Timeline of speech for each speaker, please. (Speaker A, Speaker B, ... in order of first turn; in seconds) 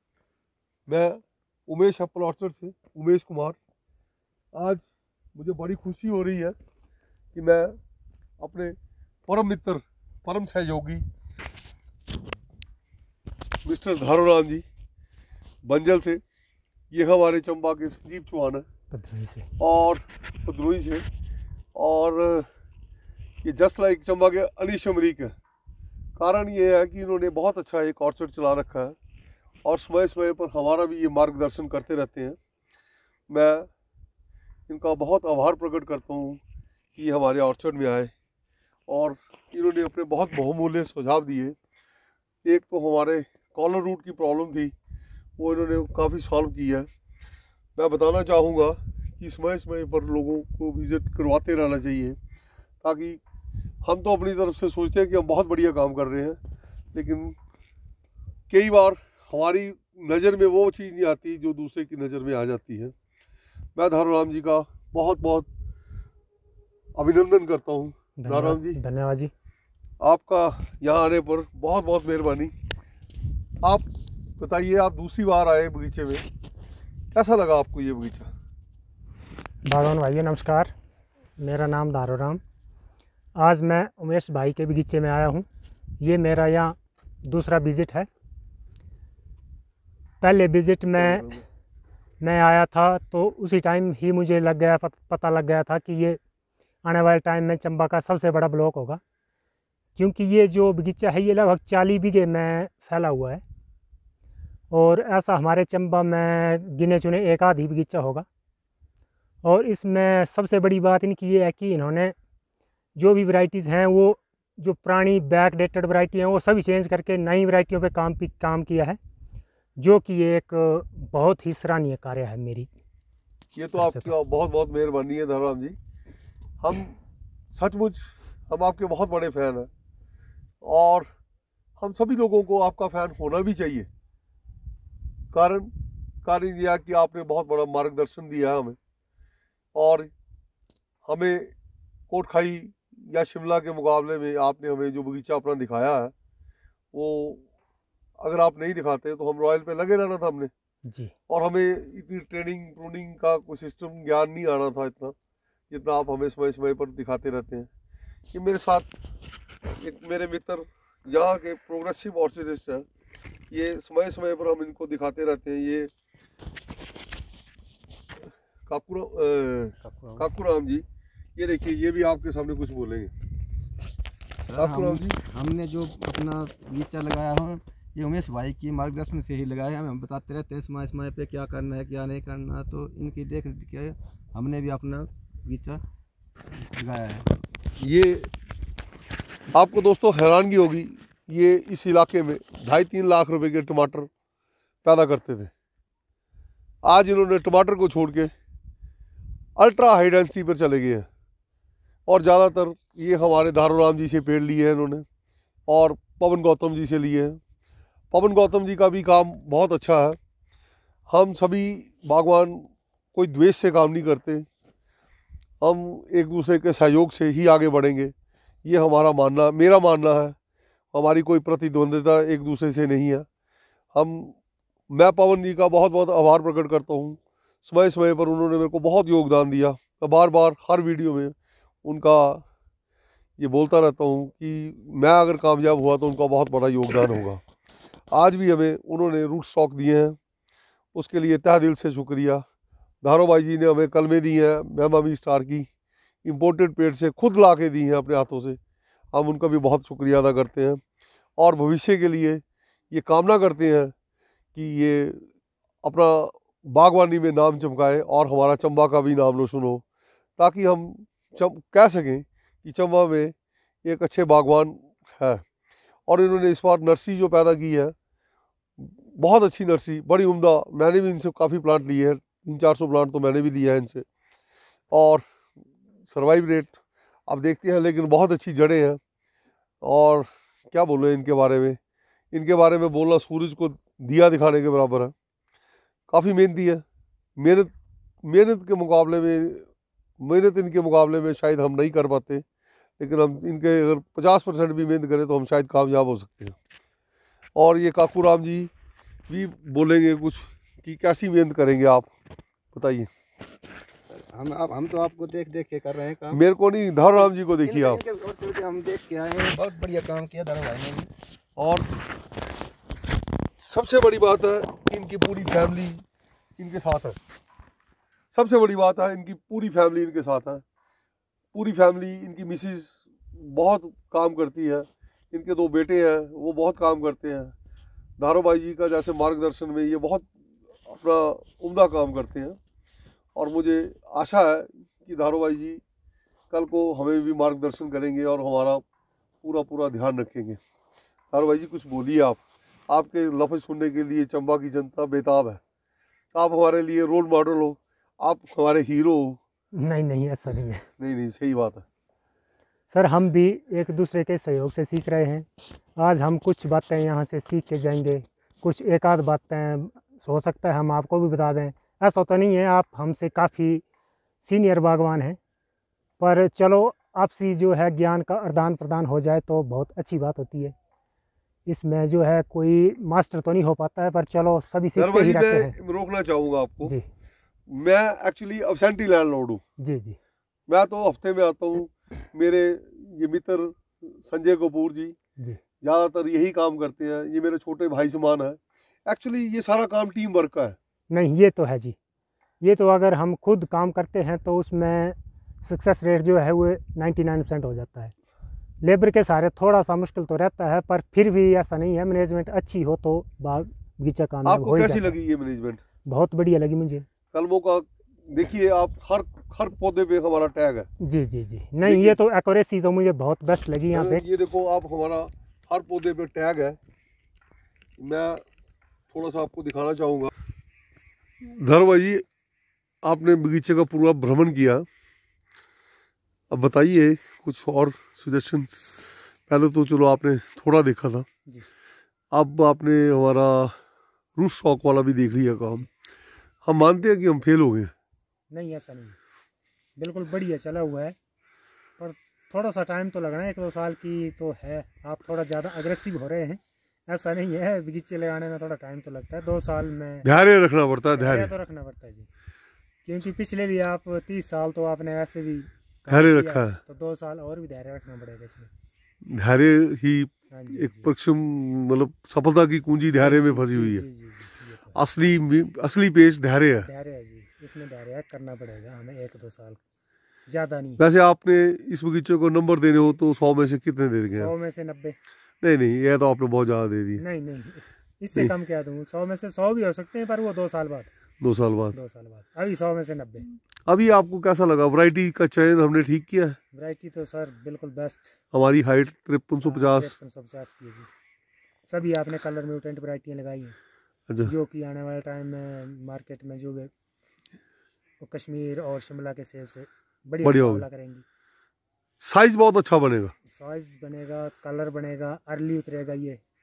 Speaker A: 0.9-3.6, 4.5-6.5, 7.3-7.8, 8.4-8.8, 9.3-11.0, 13.6-14.6, 15.6-16.2, 16.9-18.7, 19.6-21.1, 21.8-22.5, 23.4-25.4, 26.2-29.0, 29.6-32.4, 33.3-33.7, 34.7-36.4, 37.0-38.1, 38.9-41.6, 42.5-44.7, 45.4-46.9, 47.8-52.2, 52.8-53.2, 53.8-56.4, 56.9-57.4, 58.5-62.9, 63.8-65.5, 67.0-68.8, 70.0-72.5, 73.6-76.2, 77.1-78.3, 91.0-91.4, 123.5-125.8, 126.6-127.0, 127.5-129.7, 130.6-131.1, 131.8-133.9, 135.3-135.7, 136.2-138.8, 139.8-140.1, 141.1-141.5, 142.1-146.1, 146.9-147.4, 148.2-150.5, 151.3-155.2, 155.7-157.7, 158.3-158.9, 159.7-162.9, 163.5-165.9, 168.7-170.8, 171.4-173.1, 174.6-175.2, 187.8-188.3, 189.5-194.1, 194.8-195.5, 196.8-198.3, 199.6-201.1, 202.1-205.1, 205.7-207.4, 208.1-210.2, 211.1-214.5, 215.6-220.4, 220.9-223.3, 223.9-224.4, 224.9-232.4, 233.4-237.4, 238.1-240.2, 240.9-242.4, 243.0-245.7, 246.2-248.6, 249.1-250.8, 251.4-253.9, 254.6-255.3, 255.8-259.8, 260.4-265.4, 266.1-267.9, 268.8-274.1, 274.9-275.3, 276.1-276.8, 277.3-279.0, 279.8-281.8, 282.3-285.1, 286.1-286.8, 287.4-287.7, 288.2-289.7, 290.2-292.4, 293.0-296.6, 297.6-298.7, 299.3-302.1, 302.7-303.1, 306.3-308.0, 311.6-311.9, 313.6-316.0, 316.6-317.2, 318.3-320.6, 321.5-327.5, 328.2-330.3, 330.9-332.6, 333.4-335.8, 336.5-338.8, 339.4-340.6, 341.3-345.6, 346.3-349.4, 351.0-351.9, 375.0-376.9, 377.7-379.6, 380.7-385.1, 385.8-390.8, 404.4-405.8, 407.3-410.9, 411.8-412.2, 413.9-416.8, 418.0-418.4, 419.1-420.3, 421.4-422.2, 423.0-424.9, 426.5-428.8, 429.5-431.3, 432.3-433.8, 434.4-435.9, 436.6-437.9, 450.2-451.5, 456.1-456.8, 459.3-464.1, 464.9-466.9, 471.0-474.5, 475.6-477.2, 481.4-481.9, 483.9-486.6, 488.5-490.1, 500.4-500.9, 502.2-503.3
Speaker B: 18.9-19.5, 68.2-69.3, 79.7-80.7, 81.4-82.4, 83.4-85.5, 86.0-88.1, 90.2-91.4, 92.2-96.2, 96.8-99.0, 100.0-103.4, 104.7-108.3, 109.4-112.2, 113.0-119.0, 119.8-122.7, 123.8-124.2, 150.8-151.1, 349.7-350.9, 352.9-363.8, 364.4-365.4, 366.2-370.8, 371.7-375.7, 379.8-380.2, 391.1-392.0, 392.6-398.1, 398.8-405.2, 406.1-407.1, 411.0-414.2, 438.5-439.2, 440.0-441.2, 442.0-450.3, 451.1-452.3, 453.1-458.7, 460.5-461.1, 463.2-464.9, 466.8-469.8, 470.5-471.0, 474.3-475.2, 477.2-481.1, 481.9-483.5, 486.7-488.3, 489.6-491.1, 491.9-493.8, 494.4-496.9, 498.2-501.2, 503.5-506.4
Speaker C: 169.8-170.2, 174.5-185.8, 186.4-187.3, 304.1-306.4, 307.1-311.1